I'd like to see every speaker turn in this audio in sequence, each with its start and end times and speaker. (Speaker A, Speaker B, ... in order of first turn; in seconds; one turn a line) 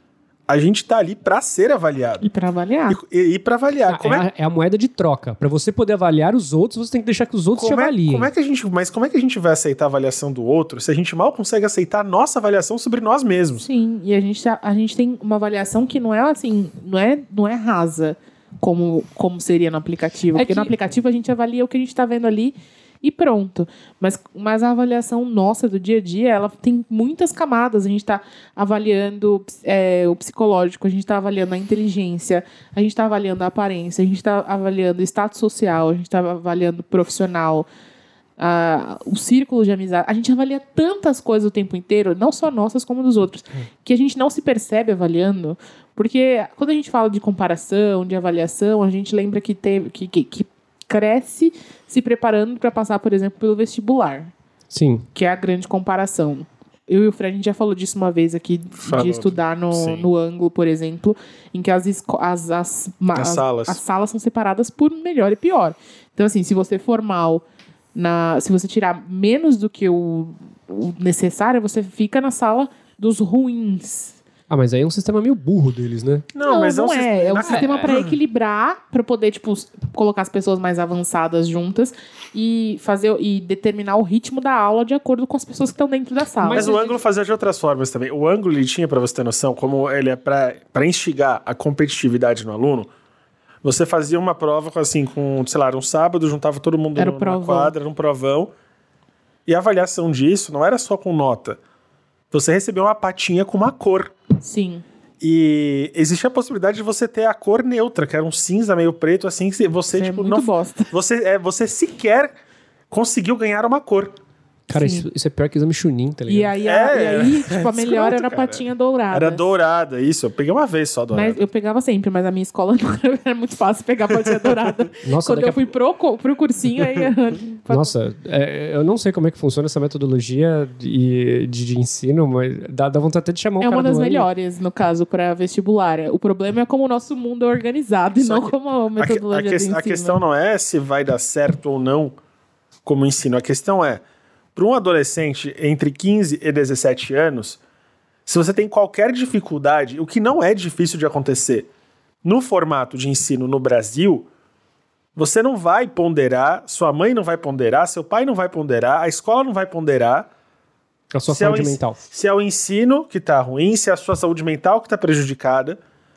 Speaker A: 0.5-2.3
Speaker B: 2.2-3.0
Speaker A: 2.9-4.3
Speaker C: 3.9-8.3
Speaker A: 7.6-13.7
Speaker B: 13.6-37.7
Speaker C: 20.3-20.7
Speaker B: 38.4-54.3
Speaker C: 54.7-55.1
Speaker B: 55.1-67.4
Speaker A: 58.8-60.1
Speaker A: 63.1-63.8
Speaker B: 67.9-74.2
Speaker C: 74.5-76.3
Speaker A: 76.3-78.2
Speaker B: 76.4-86.7
Speaker C: 77.4-78.0
Speaker C: 86.4-87.0
Speaker A: 86.5-92.9
Speaker A: 93.6-98.5
Speaker B: 97.0-97.7
Speaker A: 99.5-101.6
Speaker A: 102.3-104.2
Speaker B: 104.4-104.8
Speaker A: 105.2-112.3
Speaker B: 109.9-110.9
Speaker A: 112.9-114.2
Speaker C: 114.7-116.5
Speaker B: 114.7-115.1
Speaker B: 116.3-119.4
Speaker A: 116.6-121.4
Speaker B: 121.1-127.9
Speaker C: 125.0-125.7
Speaker C: 127.7-134.3
Speaker B: 133.6-140.2
Speaker A: 138.2-142.2
Speaker A: 142.8-144.0
Speaker A: 144.6-147.6
Speaker A: 148.2-151.7
Speaker A: 152.2-154.3
Speaker A: 155.2-160.3
Speaker C: 161.1-162.0
Speaker A: 161.3-165.8